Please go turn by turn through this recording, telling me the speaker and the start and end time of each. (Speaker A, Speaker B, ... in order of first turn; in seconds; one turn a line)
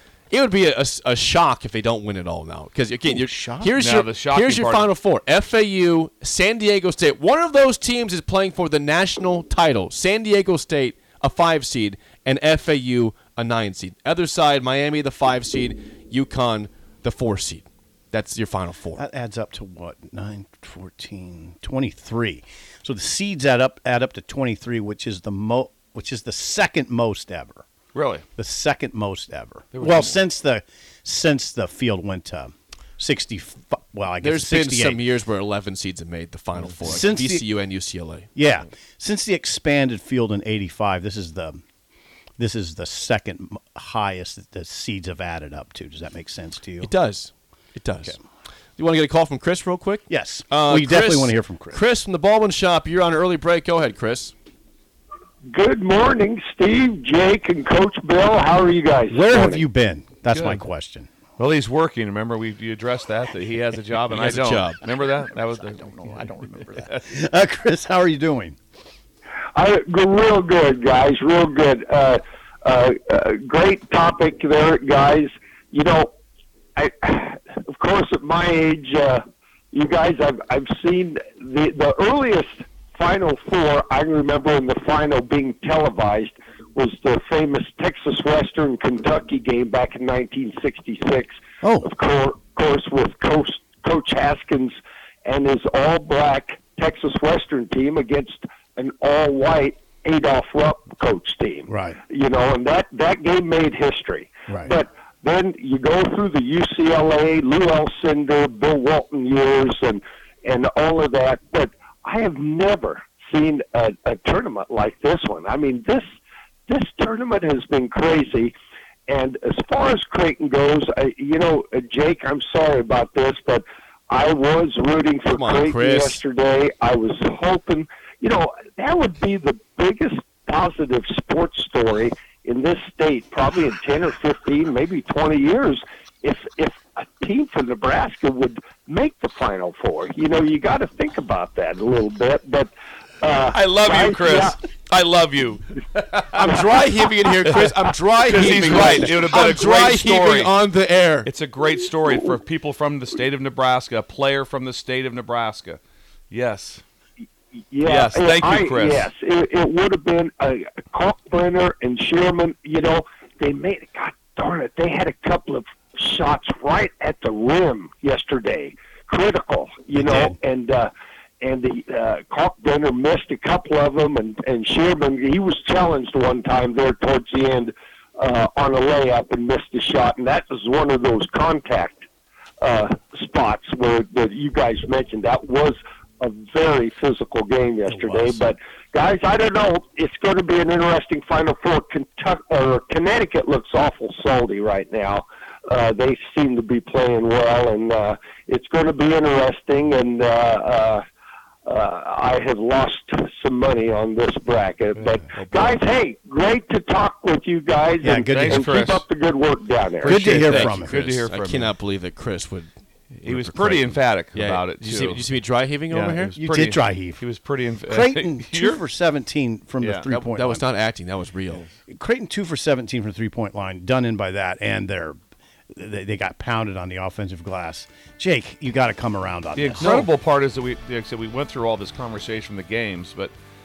Speaker A: 0.3-19.0
Speaker B: 3.1-3.7
Speaker C: 3.8-4.9
Speaker B: 19.0-27.6
Speaker C: 27.9-28.2
Speaker B: 28.4-35.0
Speaker C: 29.7-30.2
Speaker A: 34.2-38.3
Speaker B: 36.8-37.5
Speaker B: 38.4-41.6
Speaker B: 42.4-46.9
Speaker A: 46.8-48.2
Speaker A: 48.8-54.3
Speaker B: 50.1-51.8
Speaker D: 55.5-59.6
Speaker B: 59.1-61.1
Speaker C: 60.3-60.6
Speaker C: 61.4-67.0
Speaker A: 64.1-64.8
Speaker B: 66.0-68.6
Speaker D: 69.5-76.1
Speaker D: 76.8-116.1
Speaker B: 91.6-91.9
Speaker B: 101.7-102.0
Speaker D: 116.7-118.5
Speaker D: 119.1-142.7
Speaker A: 125.3-126.2
Speaker D: 143.2-144.6
Speaker C: 143.5-146.6
Speaker A: 146.3-151.3
Speaker D: 146.4-146.8
Speaker C: 147.4-150.5
Speaker C: 151.3-155.8
Speaker C: 156.3-156.8
Speaker D: 157.7-182.0
Speaker C: 157.8-159.1
Speaker B: 169.9-170.4
Speaker D: 182.6-201.0
Speaker B: 187.9-188.4
Speaker D: 201.6-210.6
Speaker C: 205.0-205.8
Speaker B: 208.0-208.7
Speaker C: 208.3-209.1
Speaker C: 210.0-211.7
Speaker B: 210.0-211.0
Speaker A: 210.6-212.7
Speaker A: 213.2-216.4
Speaker C: 213.2-215.2
Speaker C: 215.9-218.8
Speaker B: 216.4-217.2
Speaker B: 217.9-220.7
Speaker C: 219.8-220.1
Speaker A: 220.1-221.7
Speaker B: 221.9-225.2
Speaker B: 225.7-230.1
Speaker C: 229.6-233.3